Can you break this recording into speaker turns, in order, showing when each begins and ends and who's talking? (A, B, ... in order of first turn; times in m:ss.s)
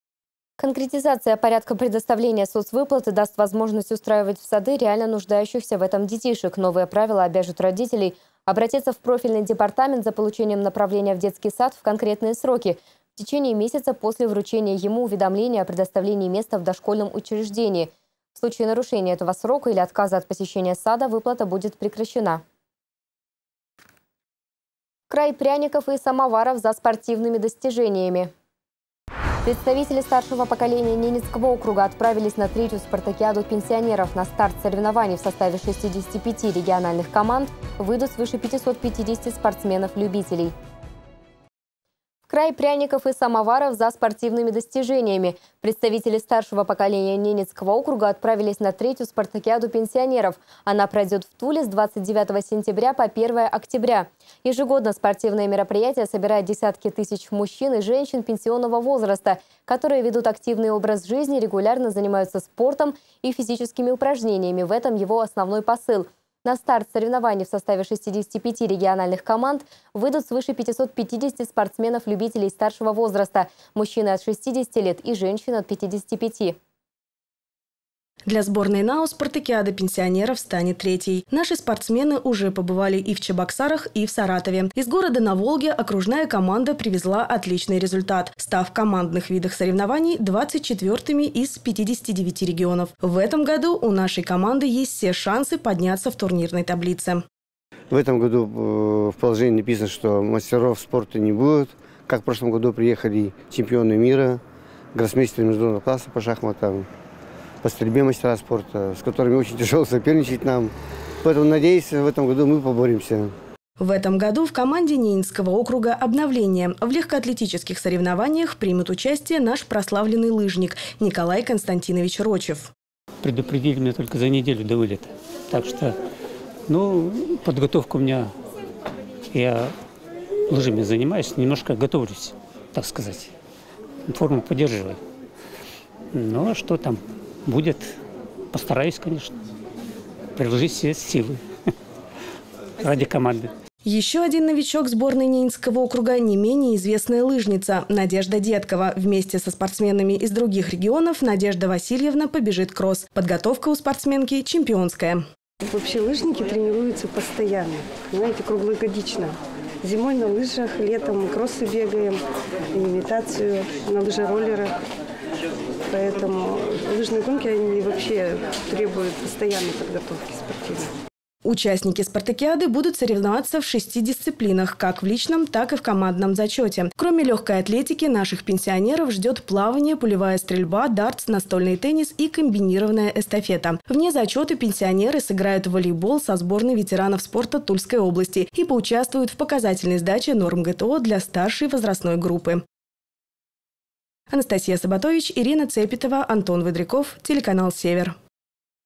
0:00.6-0:22.4 A
0:25.1-0:28.3 A
0:29.4-0:40.5 A
0:42.3-1:16.6 A
1:18.3-1:37.2 B
1:37.9-1:44.4 C
1:44.9-1:46.9 C
1:47.6-1:53.4 C
1:53.8-2:02.7 B
2:03.2-2:06.0 D
2:06.7-2:08.3 D
2:09.3-2:09.7 D
2:10.5-2:13.3 D
2:14.1-2:15.0 D
2:16.1-2:18.0 D
2:18.5-2:19.4 D
2:20.4-2:21.4 D
2:22.8-2:23.5 D
2:23.8-2:35.2 B
2:35.6-2:42.2 E
2:42.7-2:44.8 E
2:45.9-2:50.9 E
2:51.4-3:12.6 B
3:14.3-3:18.2 B